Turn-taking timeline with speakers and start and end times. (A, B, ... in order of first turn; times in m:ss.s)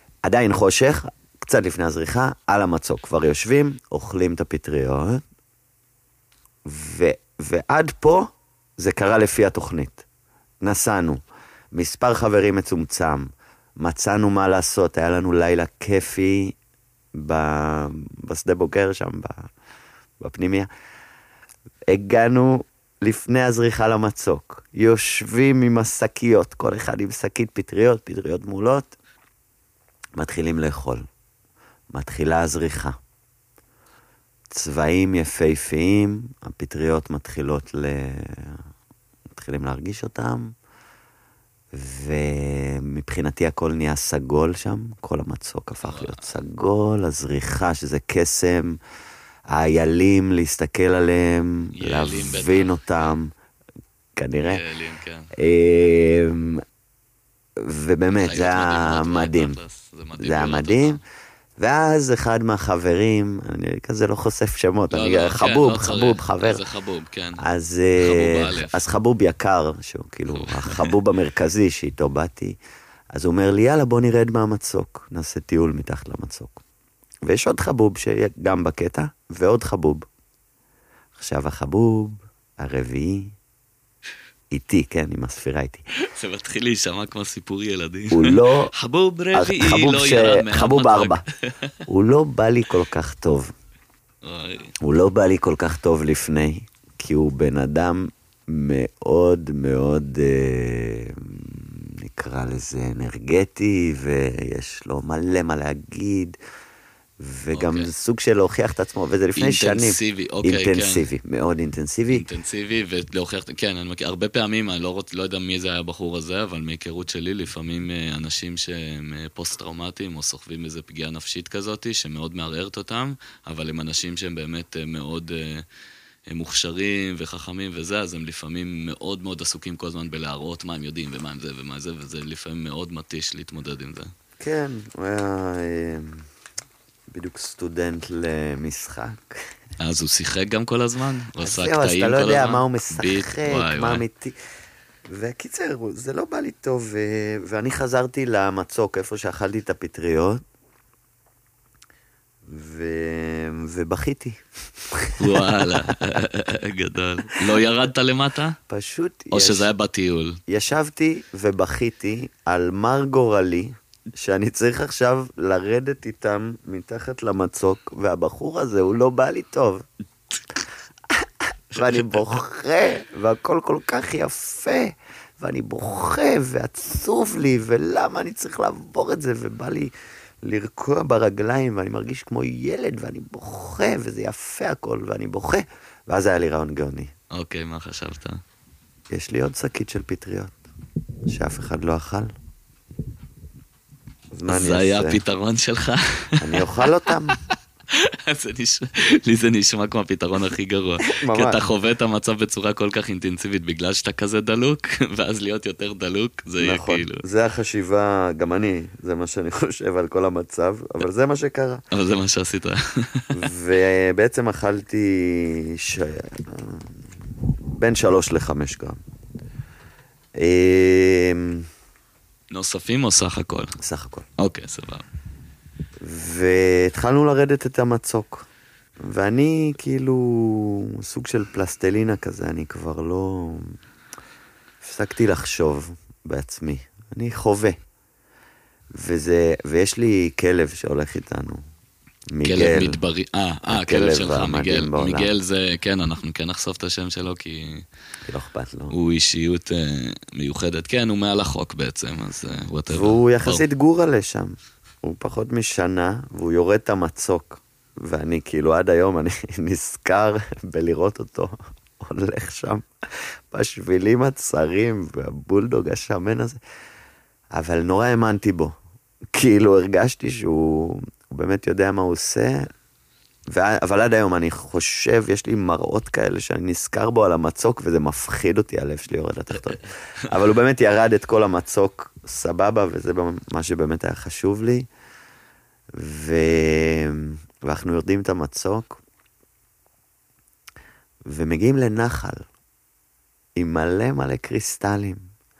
0:00.2-0:05.2 A
0:06.6-0:10.0 A
0:10.6-0:11.2 A
0:11.7-0:16.6 A
0:17.1-0:19.5 A
0:20.2-0:20.7 A
0:21.9-0:28.9 A
0:30.2-0:31.0 A
0:31.9-0:33.0 A
0:34.5-0:38.6 A
0:39.3-0:40.5 A
0:41.7-0:48.8 A
0:45.8-0:46.3 B
0:49.5-0:53.3 A
0:51.8-0:53.1 B
0:54.2-0:54.6 A
0:54.4-0:55.3 B
0:55.3-0:56.6 A
0:57.6-0:59.6 A
0:58.2-1:01.0 B
1:00.2-1:01.0 A
1:01.6-1:06.6 A
1:04.9-1:07.4 B
1:07.4-1:12.6 A
1:08.0-1:08.8 B
1:10.3-1:10.9 B
1:13.1-1:16.6 A
1:17.2-1:20.0 A
1:21.2-1:23.3 A
1:24.5-1:25.8 A
1:26.1-1:31.8 B
1:28.1-1:28.7 A
1:29.3-1:31.2 A
1:31.9-1:33.5 A
1:34.2-1:34.7 B
1:34.8-1:46.4 A
1:47.2-1:52.2 A
1:47.5-1:47.9 B
1:49.4-1:51.0 B
1:52.1-2:05.6 B
2:06.3-2:14.1 B
2:14.4-2:16.3 A
2:17.1-2:19.5 A
2:19.8-2:24.0 B
2:21.4-2:24.4 A
2:25.1-2:30.4 A
2:32.4-2:36.2 A
2:35.2-2:38.6 B
2:37.3-2:37.6 A
2:38.7-2:39.7 A
2:39.3-2:40.4 B
2:40.5-2:49.8 A
2:51.1-3:07.1 A
3:07.3-3:08.4 B
3:09.1-3:10.6 A
3:11.2-3:12.3 A
3:14.3-3:15.2 A
3:14.5-3:16.7 B
3:16.4-3:17.4 A
3:17.3-3:27.2 B
3:21.1-3:21.6 A
3:26.6-3:31.8 A
3:31.9-3:33.3 B
3:33.3-3:39.0 A
3:40.4-3:41.7 A
3:42.5-3:43.8 B
3:43.8-3:44.2 A
3:44.4-3:45.0 B
3:46.0-3:48.5 A
3:49.0-3:53.8 A
3:54.8-3:57.8 A
3:58.9-4:01.6 A
4:02.3-4:03.0 A
4:02.4-4:07.8 B
4:03.7-4:05.3 A
4:08.2-4:08.9 A
4:08.9-4:13.6 B
4:12.9-4:26.6 A
4:27.5-4:28.7 A
4:29.3-4:32.7 A
4:33.5-4:44.9 A
4:45.9-4:49.0 A
4:51.2-4:52.5 A
4:53.6-4:55.3 A